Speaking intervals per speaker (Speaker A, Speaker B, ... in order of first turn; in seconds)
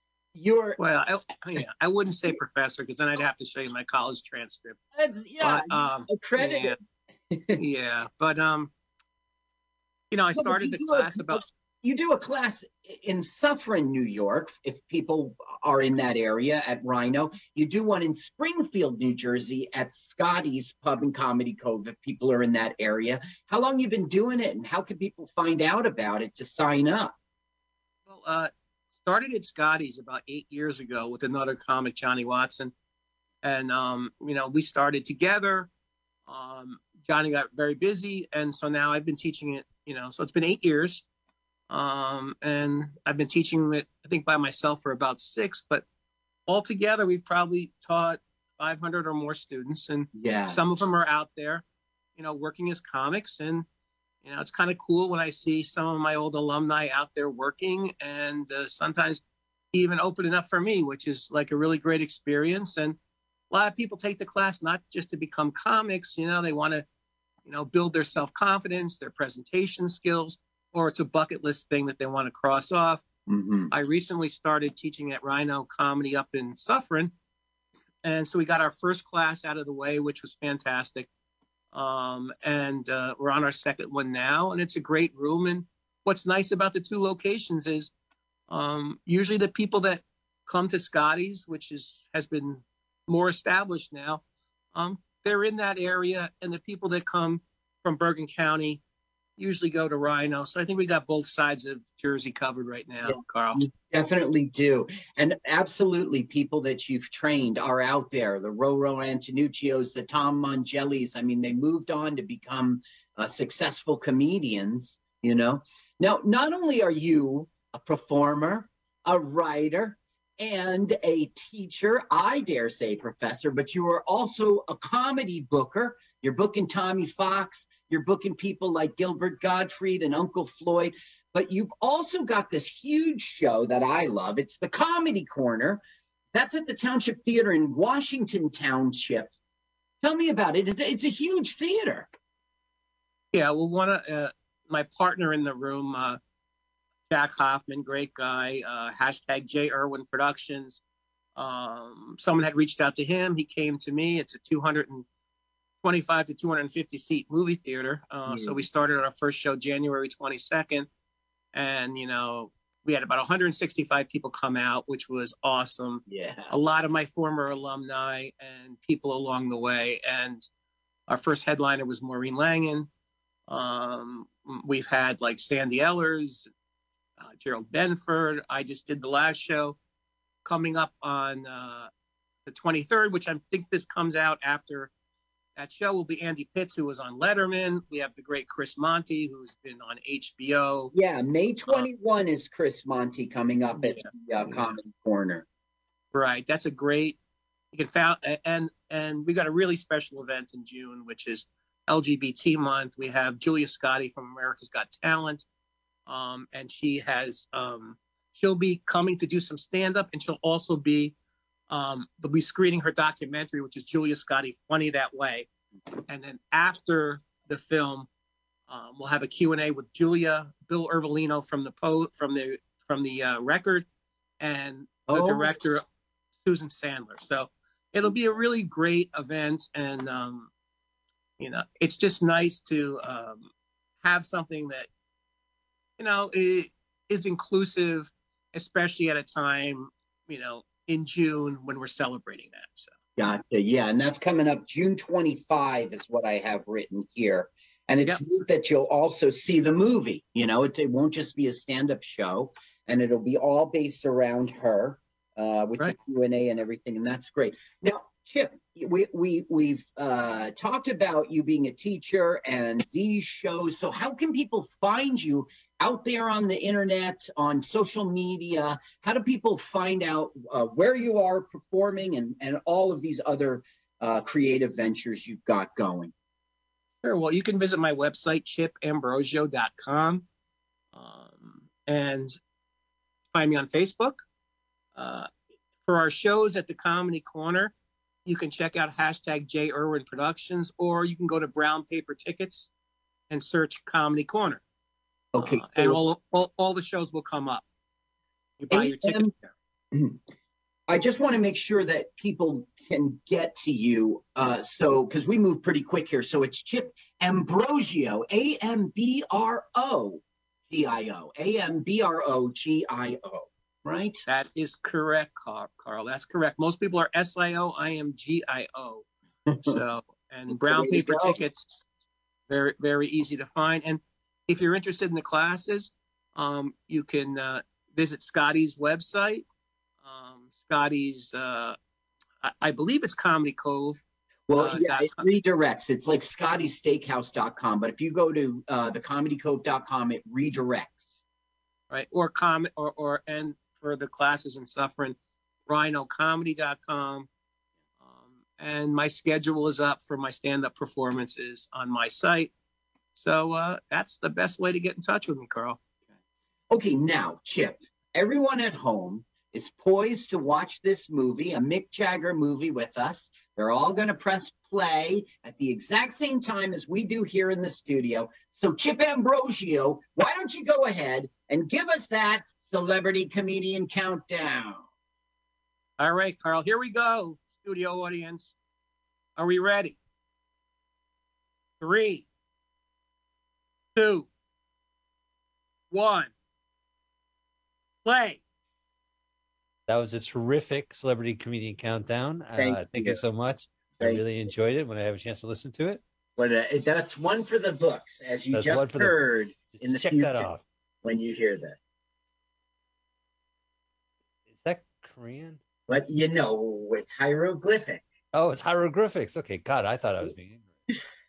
Speaker A: 0.3-0.8, 5.0-6.8, 7.3-7.6, 10.3-27.1, 50.2-50.6, 73.3-73.7, 103.0-135.8, 136.3-139.3, 140.0-142.1, 158.2-158.6, 166.1-166.5, 190.9-195.4, 225.1-225.5, 243.2-276.1, 295.3-296.0, 298.7-299.3, 300.9-314.2, 319.5-319.8, 320.5-321.4, 334.5-341.0, 356.7-374.8, 392.6-393.2, 396.4-400.5, 401.0-401.8, 405.9-408.0
Speaker B: 0.8-4.8, 5.4-6.8, 7.6-8.7, 10.1-11.4, 28.1-32.7, 33.4-35.7, 36.3-41.0, 41.7-45.8, 46.5-51.6, 52.2-53.6, 54.2-59.2, 59.7-63.0, 63.5-66.8, 67.4-73.0, 73.7-77.1, 78.0-81.1, 81.7-87.9, 88.5-94.2, 94.7-98.8, 99.4-103.6, 143.3-146.2, 147.1-150.8, 151.3-155.1, 155.8-160.9, 161.5-170.4, 171.1-172.9, 173.5-176.5, 177.2-179.8, 180.4-181.9, 182.4-184.9, 185.6-190.9, 196.1-197.2, 197.7-205.4, 206.1-211.1, 211.7-215.5, 216.1-218.1, 218.7-223.8, 224.4-225.8, 226.4-230.5, 231.4-233.5, 234.0-234.9, 236.0-242.9, 277.0-280.2, 280.9-282.4, 283.3-284.2, 284.9-285.3, 285.9-287.7, 288.2-292.7, 293.3-294.6, 295.4-297.6, 298.6-299.5, 314.2-319.1, 319.6-321.8, 322.5-329.4, 330.0-331.8, 332.4-334.0, 334.6-335.3, 341.9-347.3, 348.0-352.5, 353.1-355.8, 376.0-378.5, 379.4-380.0, 381.8-382.2, 383.9-384.3, 385.9-386.3, 388.0-388.4
Speaker C: 389.9-396.0, 398.5-399.2, 399.7-400.6, 404.5-405.6, 408.3-410.7